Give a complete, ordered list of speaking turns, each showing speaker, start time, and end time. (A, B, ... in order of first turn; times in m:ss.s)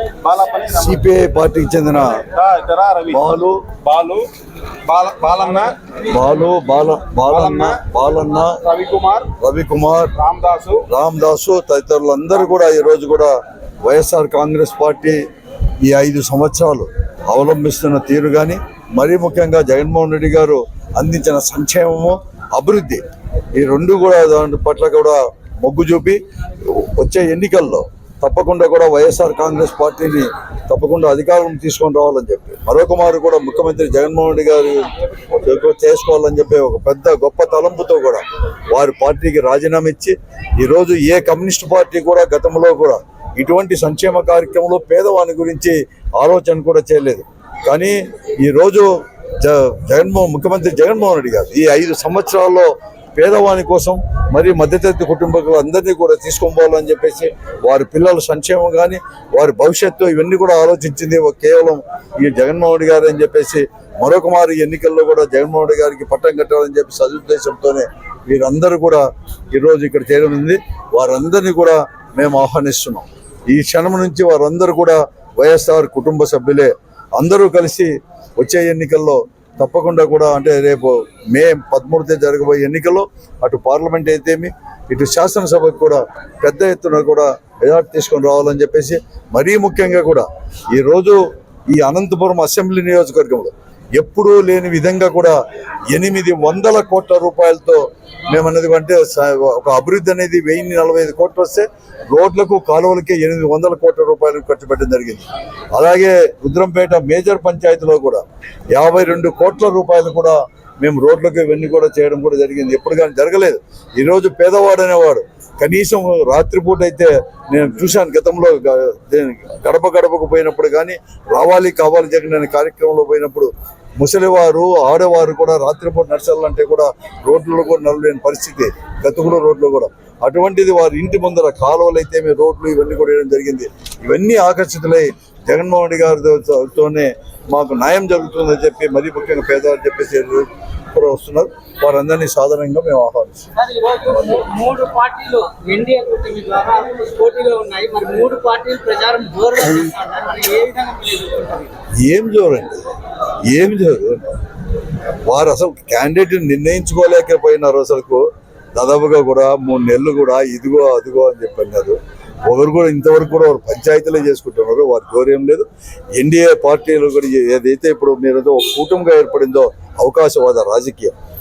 0:00.2-0:01.0 A
0:00.7-0:02.2 B
0:02.2-0:03.2 A
0:03.1-0:03.6 B
0:03.8-0:04.3 A
0:04.9-0:05.8 A
0:06.1-0:08.6 B
0:07.3-0:07.8 A
0:08.6-0:09.3 A
0:09.4-0:10.1 B
0:10.2-0:10.8 A
0:10.9-0:13.3 B
0:13.8-0:15.2 B
0:15.8-0:23.0 B
0:23.6-0:48.9 B
0:49.4-1:31.2 B
1:31.7-1:35.4 B
1:35.9-1:48.2 B
1:48.7-2:23.5 B
2:23.6-2:31.7 C
2:32.0-2:32.8 B
2:33.5-2:34.4 B
2:35.2-2:38.2 B
2:38.8-2:42.0 B
2:42.5-2:45.7 B
2:46.2-2:51.1 B